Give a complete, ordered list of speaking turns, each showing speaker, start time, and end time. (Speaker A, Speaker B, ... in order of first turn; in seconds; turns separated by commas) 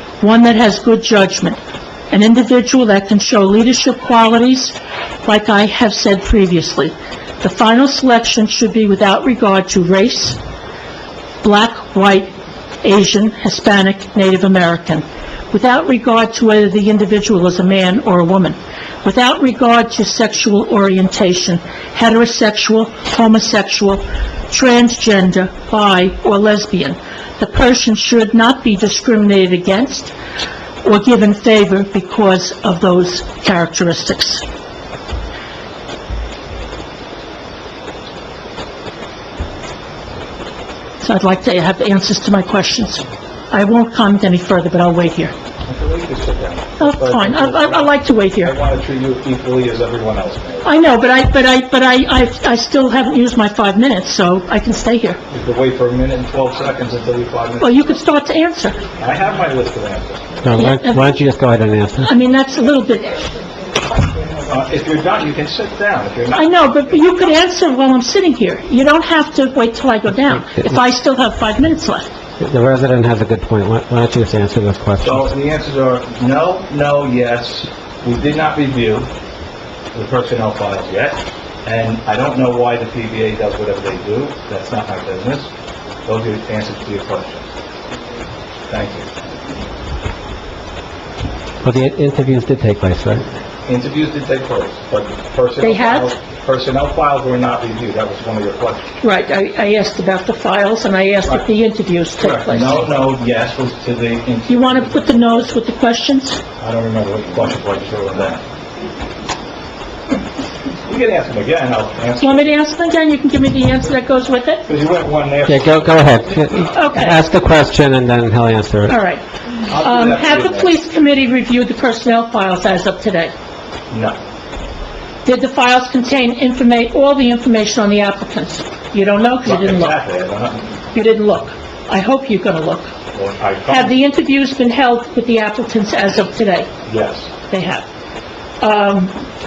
Speaker A: 0.2-1.6, Speaker A: 2.1-10.4, Speaker A: 11.4-12.3, Speaker A: 12.8-30.1, Speaker A: 30.8-34.4, Speaker A: 41.0-45.3, Speaker B: 45.7-50.7, Speaker A: 46.8-48.5, Speaker A: 50.6-55.2, Speaker B: 55.3-57.9, Speaker A: 57.6-58.8, Speaker B: 59.0-60.4, Speaker C: 60.4-62.1, Speaker A: 60.5-61.1, Speaker A: 62.0-63.3, Speaker B: 64.5-66.5, Speaker A: 66.3-72.1, Speaker C: 72.4-75.3, Speaker B: 75.0-79.1, Speaker B: 79.9-85.5, Speaker B: 86.0-87.5, Speaker B: 88.7-89.1, Speaker C: 91.6-93.2, Speaker B: 93.7-98.9, Speaker A: 95.6-96.1, Speaker A: 99.0-103.0, Speaker B: 102.2-105.5, Speaker A: 104.5-106.4, Speaker B: 106.6-108.4, Speaker B: 110.8-112.5, Speaker A: 112.2-114.7, Speaker B: 114.7-116.2, Speaker C: 115.5-119.0, Speaker A: 116.7-117.2, Speaker A: 118.9-123.3, Speaker B: 119.7-120.7, Speaker B: 123.9-124.2, Speaker A: 125.2-130.0, Speaker B: 129.4-130.7, Speaker A: 130.9-132.9, Speaker B: 133.1-133.9, Speaker A: 133.7-136.7, Speaker B: 136.9-137.3, Speaker A: 137.5-137.8, Speaker A: 138.6-139.1